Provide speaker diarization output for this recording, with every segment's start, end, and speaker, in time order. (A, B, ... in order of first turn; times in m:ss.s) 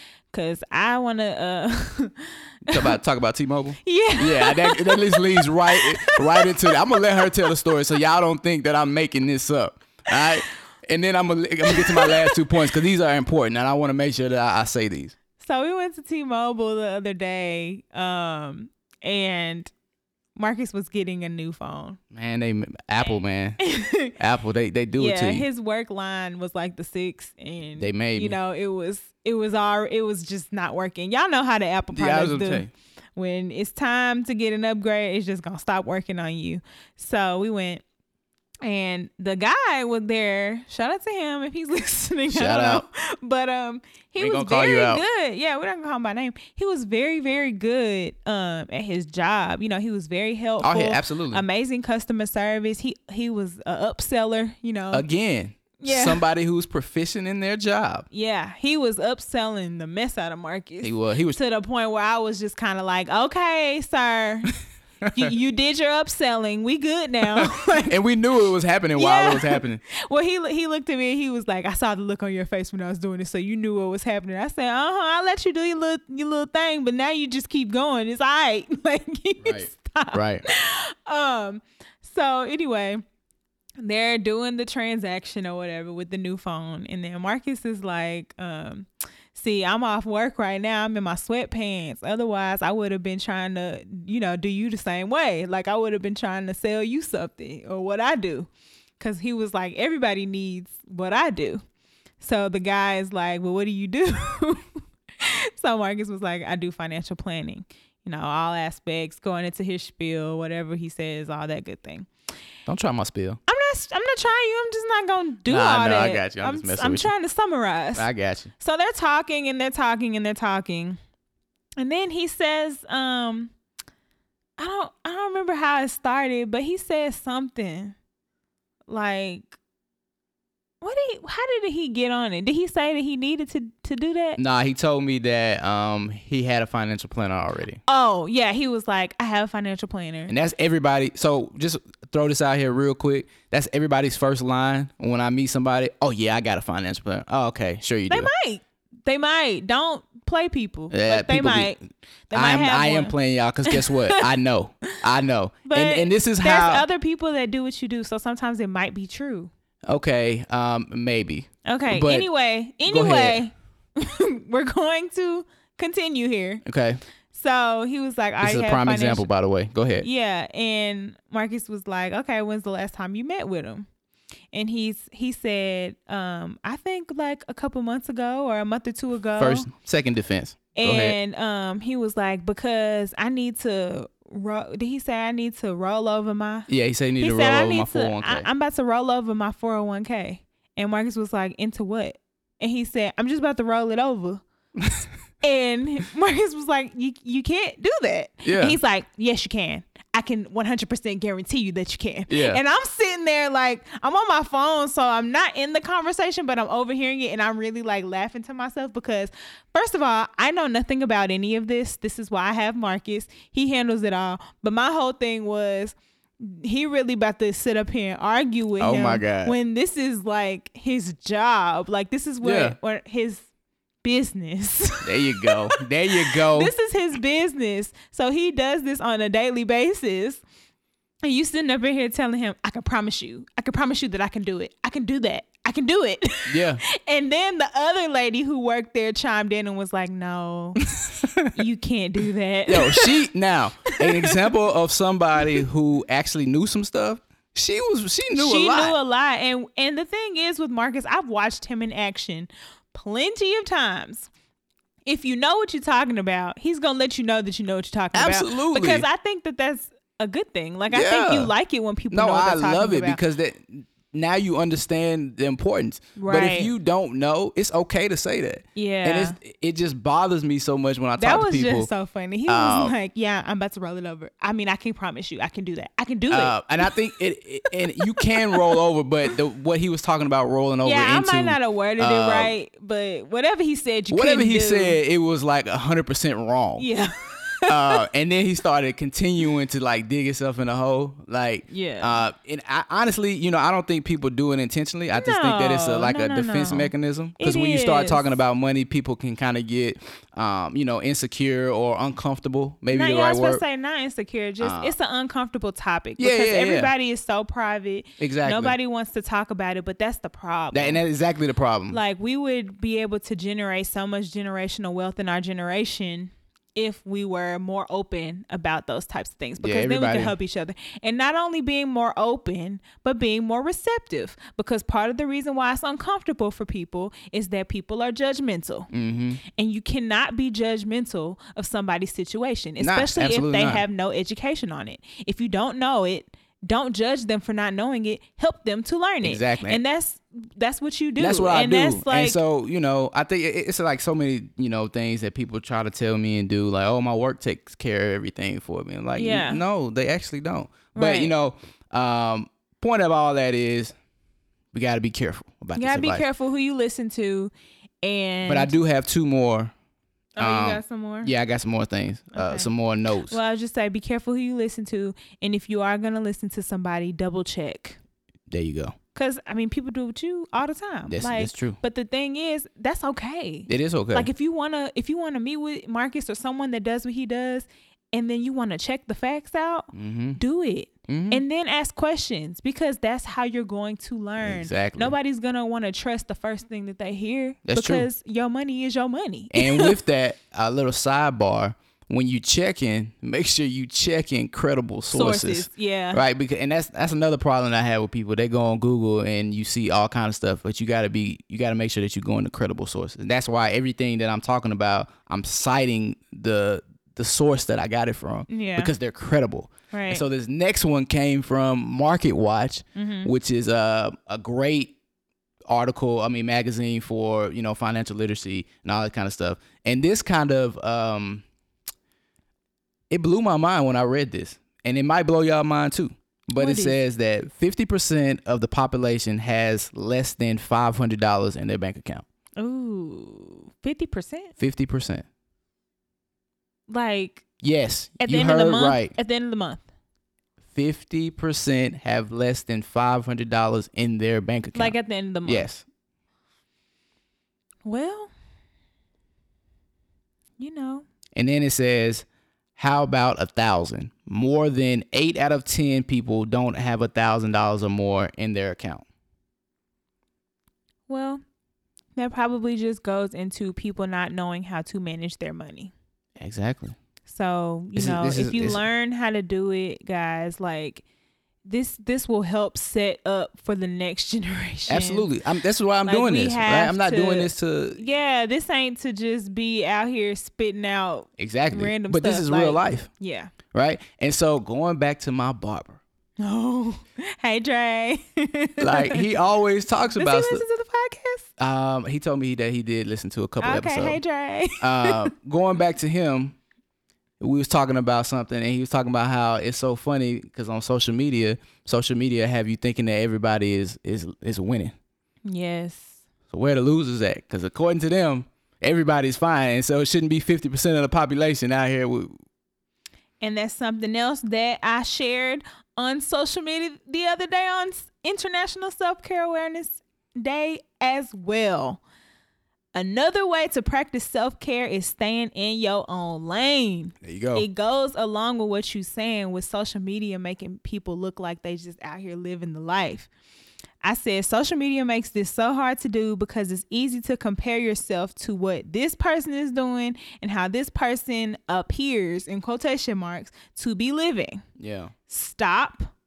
0:00.3-0:02.9 A
0:02.7-0:15.2 B
0:03.8-0:07.5 A
0:11.6-0:12.4 A
0:15.4-0:19.7 A
0:20.4-0:22.0 A
0:22.1-0:23.6 B
0:23.6-0:24.1 A
0:24.1-0:25.4 B
0:25.0-0:37.8 A
0:27.8-0:28.4 B
0:31.9-0:32.7 B
0:38.6-0:55.0 A
0:42.3-0:42.8 B
0:44.2-0:45.0 B
0:50.6-0:51.4 B
0:54.9-0:58.0 B
0:55.8-0:56.2 A
0:58.1-1:04.5 A
1:00.8-1:01.4 B
1:05.0-1:05.3 B
1:05.1-1:08.0 A
1:07.3-1:09.8 B
1:09.0-1:23.0 A
1:19.4-1:20.4 B
1:23.8-1:38.5 A
1:39.0-1:41.6 A
1:42.2-1:52.1 A
1:52.6-1:53.4 B
1:53.5-1:58.1 A
1:55.5-1:57.1 B
1:58.0-1:58.5 B
1:58.6-2:01.0 A
2:01.8-2:03.5 A
2:04.6-2:07.9 A
2:08.9-2:09.6 A
2:10.8-2:14.4 A
2:14.4-2:17.8 B
2:17.9-2:20.3 A
2:20.3-2:28.3 B
2:28.1-2:31.8 A
2:30.9-2:31.8 B
2:32.3-2:33.2 A
2:32.3-2:36.8 B
2:33.7-2:34.3 A
2:35.6-2:39.5 A
2:39.9-2:42.3 B
2:41.6-2:46.6 A
2:42.8-2:43.4 B
2:46.6-2:47.0 B
2:47.3-2:49.2 A
2:48.4-2:50.0 B
2:50.0-2:53.9 A
2:54.5-2:59.7 A
2:59.4-3:01.1 B
3:00.7-3:14.4 A
3:06.7-3:08.5 B
3:15.4-3:43.4 A
3:18.4-3:18.8 B
3:22.3-3:22.6 B
3:38.8-3:39.5 B
3:42.4-3:42.8 B
3:44.0-3:50.4 A
3:45.0-3:46.7 B
3:51.2-4:00.8 A
3:56.5-3:56.8 B
4:00.9-4:01.5 B
4:01.5-4:03.2 A
4:02.7-4:09.0 B
4:03.9-4:04.4 A
4:08.3-4:14.3 A
4:15.0-4:23.2 A
4:18.1-4:19.0 B
4:20.9-4:21.5 B
4:22.1-4:31.9 B
4:26.2-4:26.7 A
4:28.8-4:29.4 A
4:31.2-4:36.9 A
4:32.5-4:33.0 B
4:36.3-4:42.5 B
4:37.7-4:38.8 A
4:40.8-4:45.0 A
4:44.1-4:46.8 B
4:46.8-4:48.0 A
4:47.7-5:03.6 B
4:51.7-4:52.2 A
4:55.1-4:58.2 A
5:02.9-5:11.0 A
5:04.6-5:04.9 B
5:06.2-5:06.9 B
5:08.2-5:08.8 B
5:10.7-5:12.0 B
5:11.9-5:28.9 A
5:19.6-5:20.3 B
5:28.9-5:29.4 B
5:29.4-5:42.4 A
5:32.8-5:33.8 B
5:39.2-5:39.8 B
5:41.2-5:53.9 B
5:49.2-5:49.6 A
5:50.9-5:51.3 A
5:54.7-5:56.2 B
5:55.8-5:57.5 A
5:58.0-5:58.7 A
5:58.4-5:59.7 B
6:00.4-6:01.3 A
6:00.4-6:03.4 B
6:02.3-6:02.7 A
6:03.3-6:08.0 A
6:08.5-6:08.9 B
6:09.1-6:30.0 A
6:11.1-6:11.8 B
6:13.7-6:14.3 B
6:19.9-6:20.4 B
6:21.1-6:21.4 B
6:24.4-6:25.1 B
6:27.6-6:28.1 B
6:29.5-6:55.0 B
6:35.1-6:36.2 A
6:48.5-6:48.9 A
6:49.9-6:50.2 A
6:53.0-6:53.3 A
6:55.7-7:01.4 B
7:03.1-7:12.2 B
7:06.6-7:07.0 A
7:12.6-7:14.5 A
7:14.6-7:15.2 B
7:16.9-7:17.4 A
7:17.6-7:19.1 B
7:18.2-7:19.8 A
7:20.7-7:25.8 B
7:24.7-7:25.7 A
7:27.8-7:28.3 A
7:30.6-7:31.0 A
7:31.3-7:32.2 B
7:32.8-7:39.0 B
7:41.1-7:41.4 A
7:42.2-7:45.9 A
7:46.4-7:47.0 B
7:47.3-7:51.0 A
7:48.0-7:48.8 B
7:51.6-7:55.3 A
7:54.9-7:58.0 B
7:56.0-8:03.5 A
8:01.4-8:03.1 B
8:03.7-8:06.0 B
8:06.4-8:09.2 A
8:08.8-8:10.6 B
8:10.2-8:11.5 A
8:11.6-8:14.2 B
8:13.6-8:15.3 A
8:14.8-8:16.6 B
8:17.4-8:24.9 B
8:25.4-8:26.2 A
8:26.5-8:32.3 B
8:33.4-8:42.0 A
8:42.9-8:53.3 A
8:47.2-8:47.6 B
8:54.0-9:04.6 A
9:04.8-9:05.1 B
9:05.3-9:06.1 A